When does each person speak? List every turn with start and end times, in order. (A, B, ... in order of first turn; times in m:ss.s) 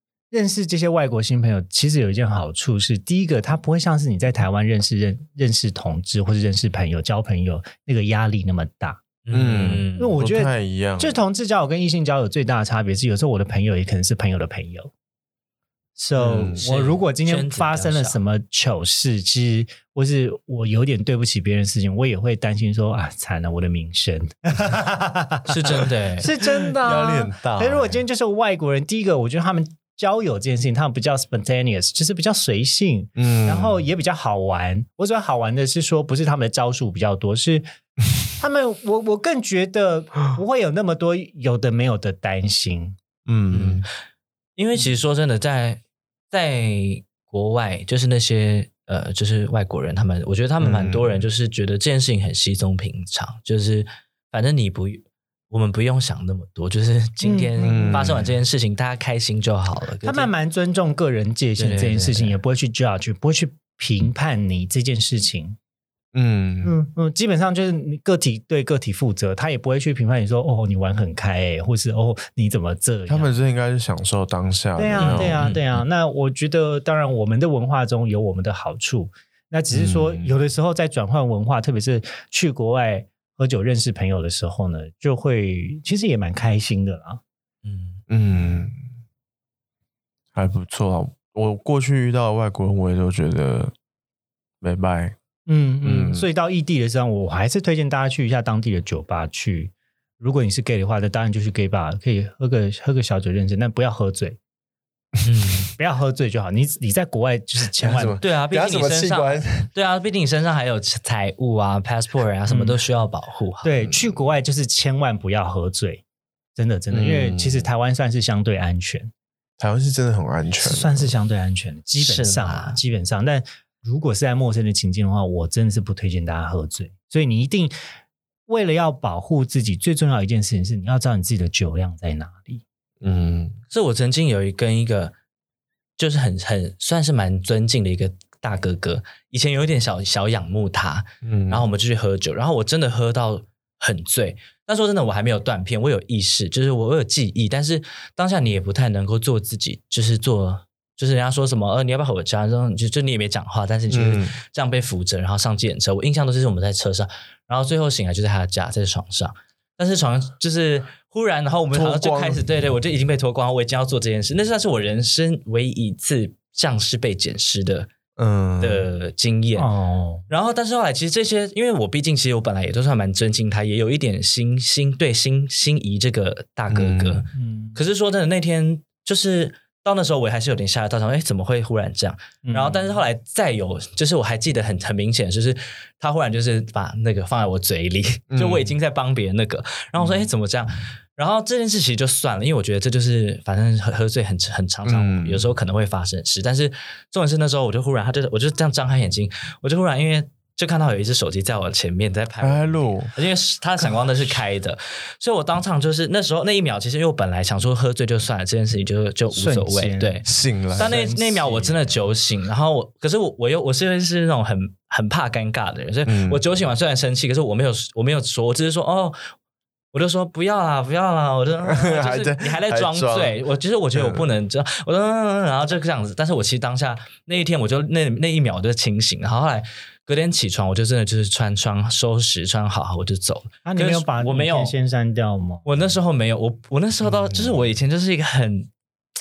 0:00.3-0:09.0 A
0:09.2-0:10.2 B
0:09.3-0:11.2 C
0:10.0-0:14.9 A
0:16.0-0:37.7 A
0:16.2-0:16.6 C
0:16.6-0:18.2 B
0:25.5-0:26.3 B
0:26.8-0:28.0 C
0:33.2-0:33.8 C
0:38.4-0:43.0 A
0:43.2-0:43.8 C
0:43.5-0:43.9 B
0:44.6-0:45.8 B
0:46.3-1:00.3 B
0:50.6-0:51.2 C
0:57.2-0:58.2 A
0:57.6-0:58.3 C
1:00.0-1:05.6 A
1:01.6-1:02.4 B
1:06.1-1:06.7 C
1:06.6-1:13.3 A
1:13.1-1:15.5 C
1:14.8-1:27.2 A
1:15.0-1:15.6 B
1:19.7-1:20.3 C
1:27.6-1:28.0 B
1:28.1-1:28.8 C
1:30.3-1:33.7 C
1:34.6-1:35.2 C
1:35.5-1:44.4 A
1:35.8-1:36.2 C
1:45.2-1:45.7 B
1:45.8-1:48.2 A
1:47.8-1:49.7 C
1:48.2-1:53.7 B
1:52.5-1:52.8 A
1:53.6-1:56.0 A
1:53.8-1:54.1 C
1:56.6-1:59.1 A
1:56.9-1:57.7 C
1:59.6-2:01.1 C
2:00.6-2:07.7 A
2:02.0-2:02.8 B
2:08.5-2:12.6 A
2:13.0-2:13.6 C
2:13.7-2:15.1 B
2:16.0-2:47.9 B
2:21.2-2:21.6 C
2:33.9-2:34.4 C
2:41.7-2:42.5 C
2:48.2-2:48.9 C
2:48.6-2:49.7 B
2:49.6-2:50.2 A
2:50.3-3:39.2 B
2:56.7-2:57.2 C
2:57.3-2:57.8 A
3:02.4-3:03.0 A
3:08.3-3:08.7 C
3:14.8-3:15.5 C
3:22.4-3:23.1 C
3:29.3-3:31.9 A
3:30.2-3:30.9 C
3:36.0-3:36.4 C
3:39.9-3:54.7 B
3:41.6-3:43.4 C
3:43.9-3:44.2 C
3:53.6-3:55.6 A
3:55.6-3:58.7 B
3:57.0-3:57.6 C